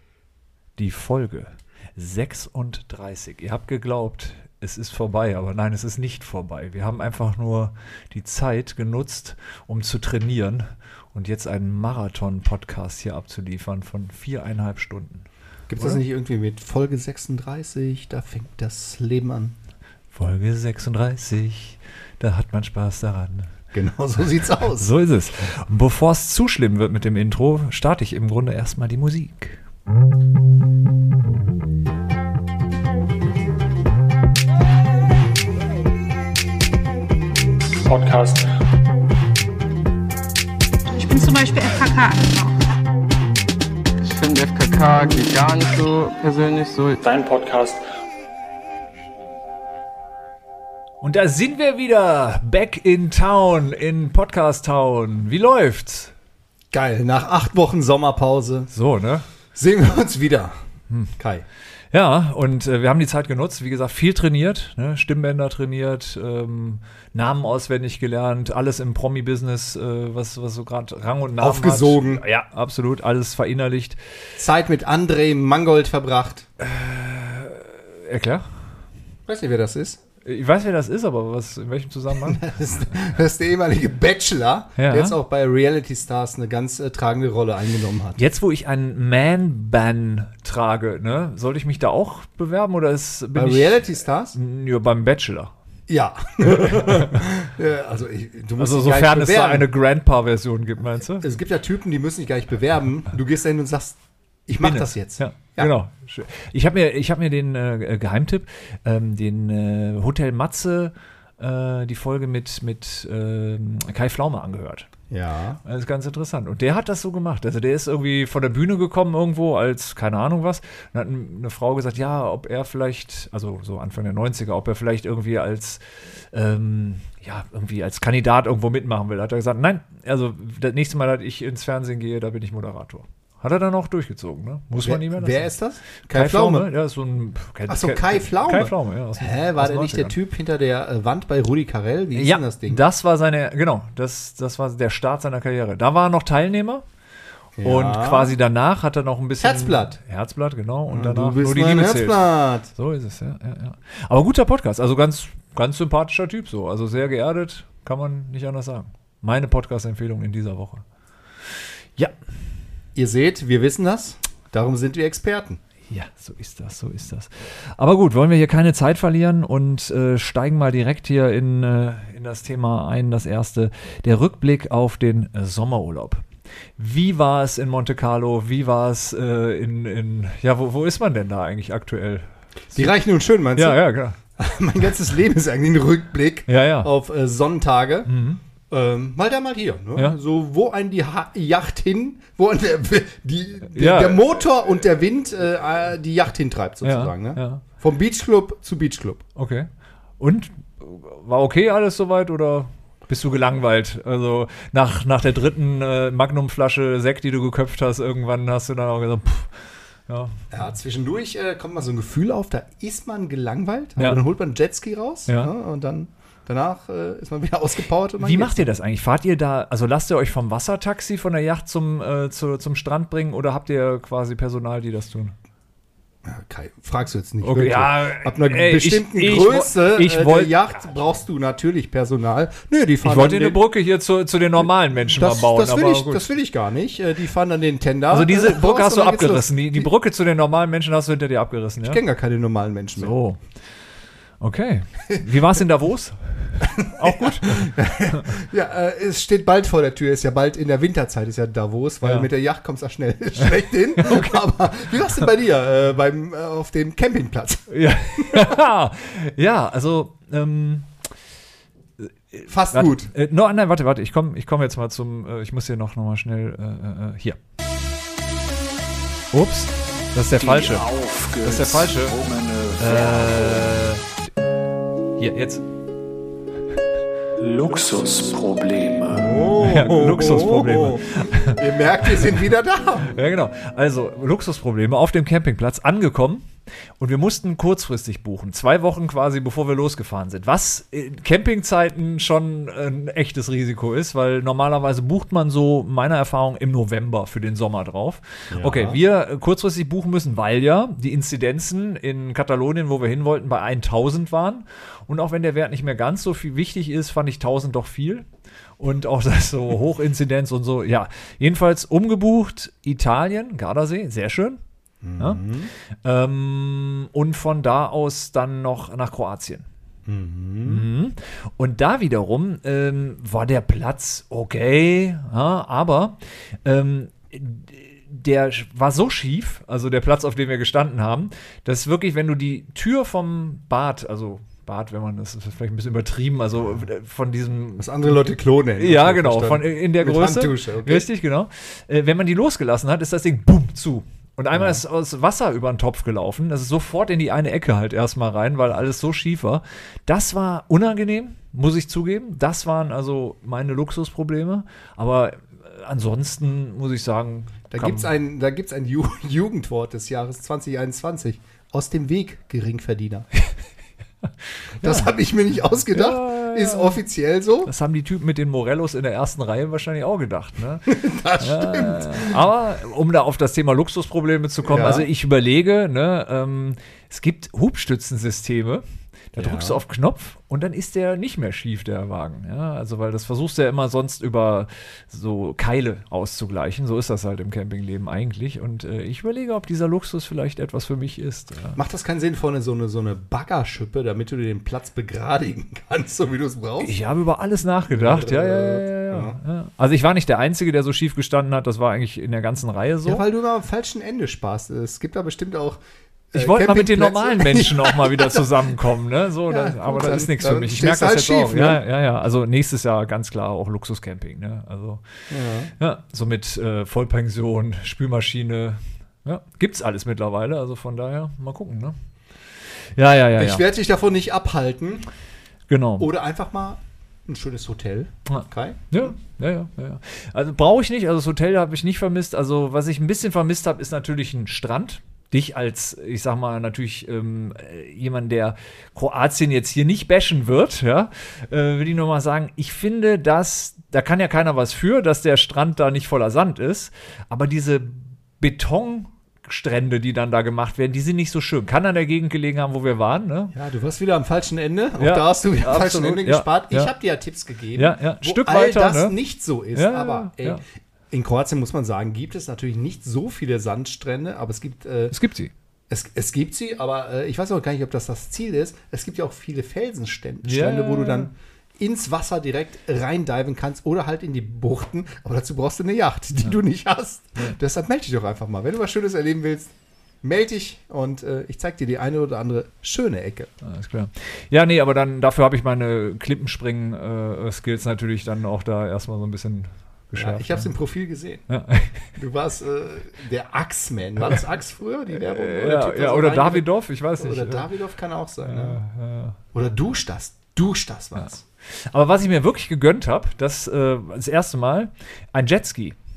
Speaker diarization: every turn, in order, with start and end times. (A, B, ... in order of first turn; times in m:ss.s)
0:00.8-0:15.2 A
0:15.7-0:19.6 B
0:20.1-0:23.5 A
0:23.7-0:24.9 B
0:24.7-0:29.6 A
0:40.9-0:42.6 C
0:44.0-0:47.3 D
0:47.4-0:47.7 C
0:51.0-0:56.1 A
0:56.7-0:58.7 B
0:58.7-0:59.2 A
0:59.5-1:00.5 B
1:01.2-1:01.4 B
1:01.9-1:14.1 A
1:11.4-1:12.2 B
1:14.4-1:16.5 B
1:16.6-1:18.8 A
1:19.3-1:20.0 B
1:20.2-1:22.4 A
1:22.1-1:28.2 B
1:24.8-1:25.2 A
1:28.2-1:35.5 A
1:33.3-1:34.4 B
1:35.9-1:39.7 B
1:36.5-1:37.2 A
1:38.6-1:41.2 A
1:41.1-1:45.7 B
1:44.6-1:54.9 A
1:55.1-1:55.6 B
1:55.6-2:15.5 A
2:14.8-2:16.7 B
2:16.1-2:20.1 A
2:17.7-2:22.8 B
2:22.1-2:26.8 A
2:27.6-2:28.4 B
2:27.6-2:40.8 A
2:29.4-2:30.0 B
2:30.9-2:32.7 B
2:42.9-2:45.6 B
2:45.9-2:56.2 A
2:56.8-3:02.9 A
3:02.7-3:08.1 B
3:03.5-3:04.2 A
3:06.5-3:06.9 A
3:08.1-3:08.4 A
3:08.7-3:19.2 B
3:13.7-3:14.4 A
3:16.8-3:17.6 A
3:19.4-3:30.4 A
3:30.5-3:38.7 B
3:38.2-3:45.3 A
3:46.2-3:53.6 B
3:47.4-3:51.2 A
3:53.0-3:56.2 A
3:55.1-3:59.9 B
3:58.1-4:02.0 A
4:01.8-4:03.1 B
4:03.0-4:03.8 A
4:04.4-4:08.2 A
4:06.6-4:18.5 B
4:12.0-4:12.3 A
4:14.0-4:14.4 A
4:17.7-4:20.9 A
4:22.0-4:27.4 A
4:22.5-4:23.1 B
4:29.3-4:30.9 A
4:30.4-4:33.7 E
4:31.4-4:32.2 A
4:32.8-4:34.0 A
4:35.2-4:35.6 A
4:37.4-4:39.5 E
4:39.1-4:43.2 B
4:39.6-4:42.2 A
4:43.0-5:14.6 A
4:58.5-4:59.0 B
5:15.0-5:15.7 B
5:15.2-5:15.5 A
5:16.0-5:19.6 A
5:20.0-5:20.8 B
5:20.6-5:38.2 A
5:37.8-5:41.1 B
5:38.8-5:58.1 A
5:44.5-5:44.8 B
5:57.7-6:03.3 B
6:04.8-6:05.1 A
6:04.8-6:07.7 B
6:05.9-6:07.0 A
6:07.6-6:31.8 A
6:10.9-6:12.4 B
6:14.6-6:15.1 B
6:19.3-6:19.8 B
6:31.7-6:36.9 B
6:36.8-6:43.2 A
6:37.9-6:39.4 B
6:43.0-6:45.8 B
6:46.3-6:48.6 B
6:46.3-6:55.2 A
6:49.5-6:51.8 B
6:55.3-6:55.7 B
6:55.8-7:03.6 A
7:03.3-7:05.1 B
7:05.7-7:06.1 A
7:06.0-7:09.1 B
7:08.3-7:33.5 A
7:33.5-7:45.1 B
7:35.0-7:36.9 A
7:37.7-7:39.2 A
7:39.7-7:40.6 A
7:45.1-7:45.5 A
7:45.9-8:03.5 B
7:50.4-7:51.3 A
8:03.6-8:10.7 A
8:10.1-8:11.4 B
8:11.5-8:12.1 A
8:12.2-8:18.8 B
8:15.1-8:17.7 A
8:18.4-8:19.4 A
8:19.5-8:21.4 B
8:21.2-8:26.0 A